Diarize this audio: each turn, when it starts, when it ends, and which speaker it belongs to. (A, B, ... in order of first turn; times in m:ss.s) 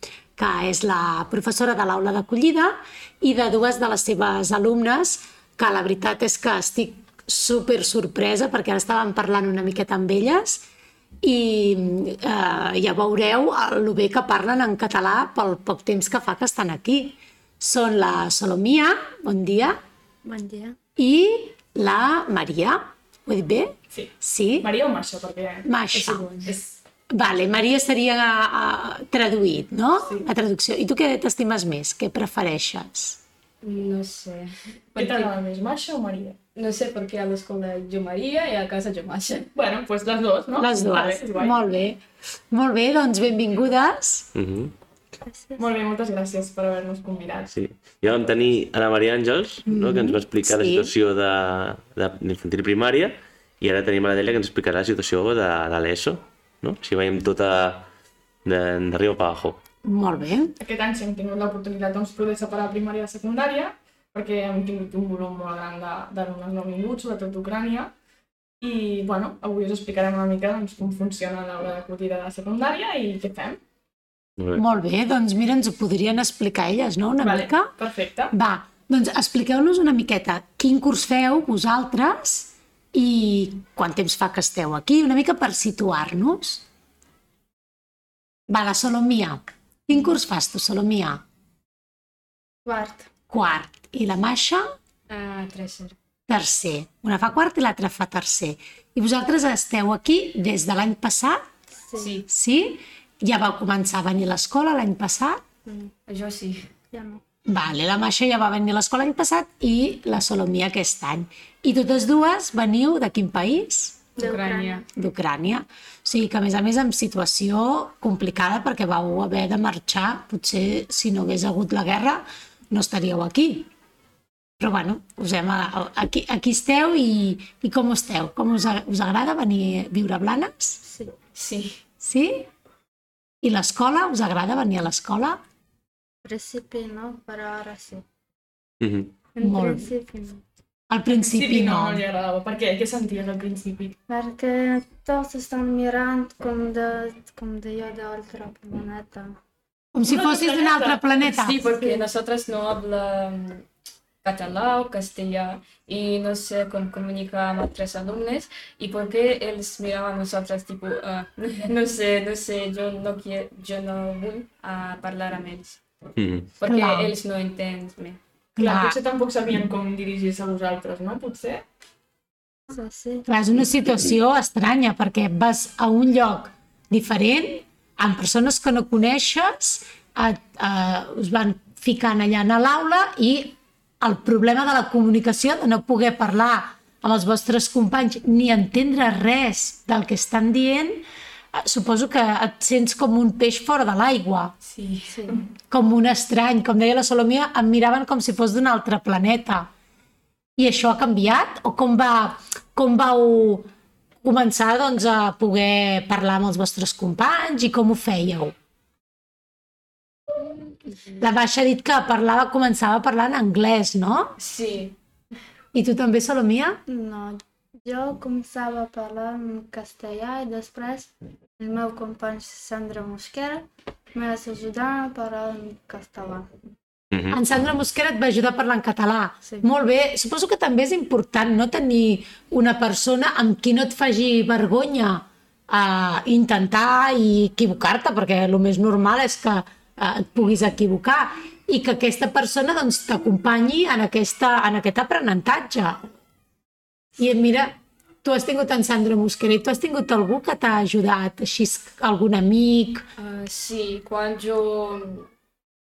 0:00.4-0:10.6 A
0:11.2-0:19.8 A
0:20.2-0:20.8 B
0:21.0-0:24.7 A
0:23.9-0:26.8 C
0:25.6-0:26.3 A
0:25.9-0:26.6 D
0:27.1-0:33.2 A
0:30.0-0:30.3 C
0:33.6-0:35.3 D
0:35.0-0:36.4 C
0:36.6-0:39.5 D
0:39.6-0:41.6 C
0:40.6-0:44.3 A
0:44.4-0:44.7 E
0:45.2-0:45.7 B
0:45.6-0:47.5 C
0:47.5-0:57.9 E
0:49.7-0:50.9 A
0:58.4-0:59.6 E
0:59.8-1:00.6 A
1:00.6-1:07.9 C
1:08.6-1:13.6 C
1:14.4-1:14.6 E
1:14.6-1:17.7 A
1:17.2-1:18.3 C
1:18.3-1:26.6 A
1:28.5-1:31.2 A
1:32.6-1:33.1 B
1:33.3-1:34.7 A
1:35.1-1:36.0 D
1:36.3-1:41.4 A
1:41.8-1:42.1 B
1:42.0-1:42.3 D
1:42.3-1:45.4 A
1:45.7-1:45.9 B
1:46.1-1:46.7 D
1:46.9-1:47.2 B
1:47.5-1:54.1 A
1:54.2-1:54.8 B
1:54.2-1:54.9 D
1:55.0-2:03.7 A
2:04.6-2:10.8 A
2:10.8-2:11.1 B
2:11.3-2:11.8 D
2:12.0-2:12.5 A
2:13.4-2:15.4 A
2:16.2-2:18.0 B
2:18.8-2:19.1 E
2:19.4-2:20.4 B
2:19.4-2:19.9 A
2:20.9-2:22.0 A
2:21.2-2:24.0 C
2:24.1-2:29.4 B
2:29.9-2:31.7 A
2:30.0-2:31.0 C
2:31.3-2:33.7 D
2:31.8-2:32.0 B
2:34.2-2:45.8 D
2:46.2-2:46.5 E
2:46.6-2:48.2 D
2:46.6-2:47.1 A
2:48.6-2:49.0 A
2:48.6-2:51.6 C
2:52.7-2:53.3 B
2:53.3-3:14.5 A
3:14.6-3:15.4 D
3:15.7-3:19.7 A
3:20.6-3:23.7 A
3:24.2-3:28.5 A
3:30.9-3:31.2 D
3:31.2-3:34.4 A
3:34.4-3:35.0 D
3:35.7-3:36.8 A
3:36.9-3:46.5 B
3:47.1-3:47.4 E
3:47.3-4:06.0 A
4:07.2-4:13.1 A
4:13.2-4:15.3 D